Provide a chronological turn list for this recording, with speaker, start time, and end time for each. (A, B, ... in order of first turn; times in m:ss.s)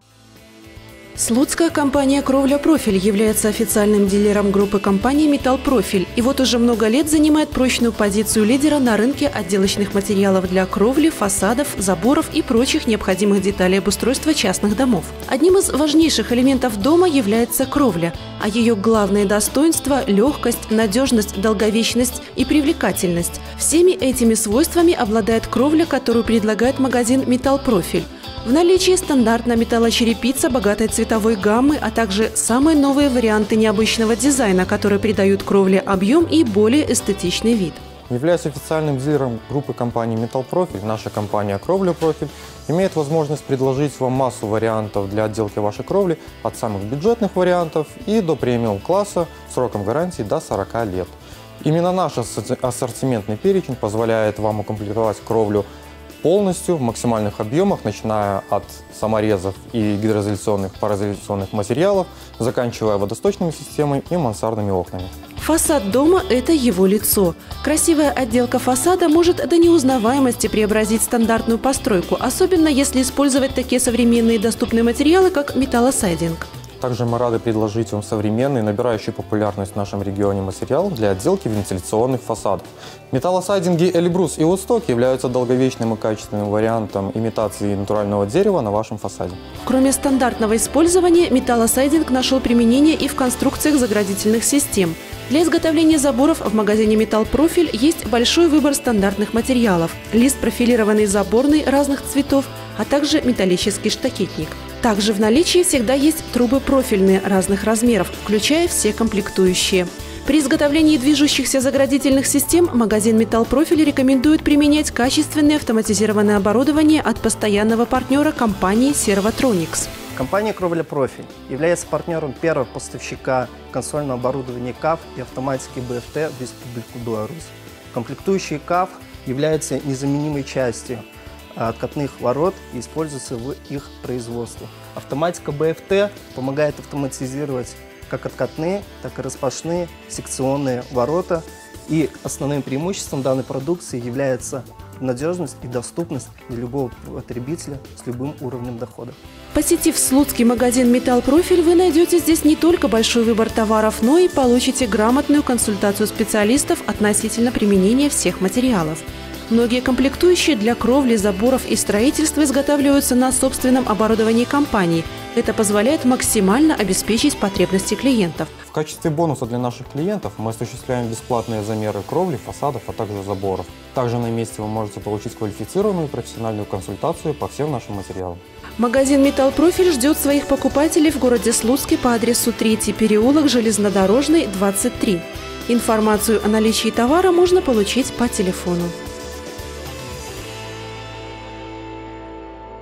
0:01.2-0:37.8 A
0:38.1-0:55.7 B
0:56.2-1:05.1 B
1:05.4-1:16.5 A
1:16.8-1:29.4 B
1:29.6-1:59.9 A
2:00.1-2:29.2 C
2:29.5-2:48.5 A
2:48.7-2:58.4 B
2:58.8-3:08.9 A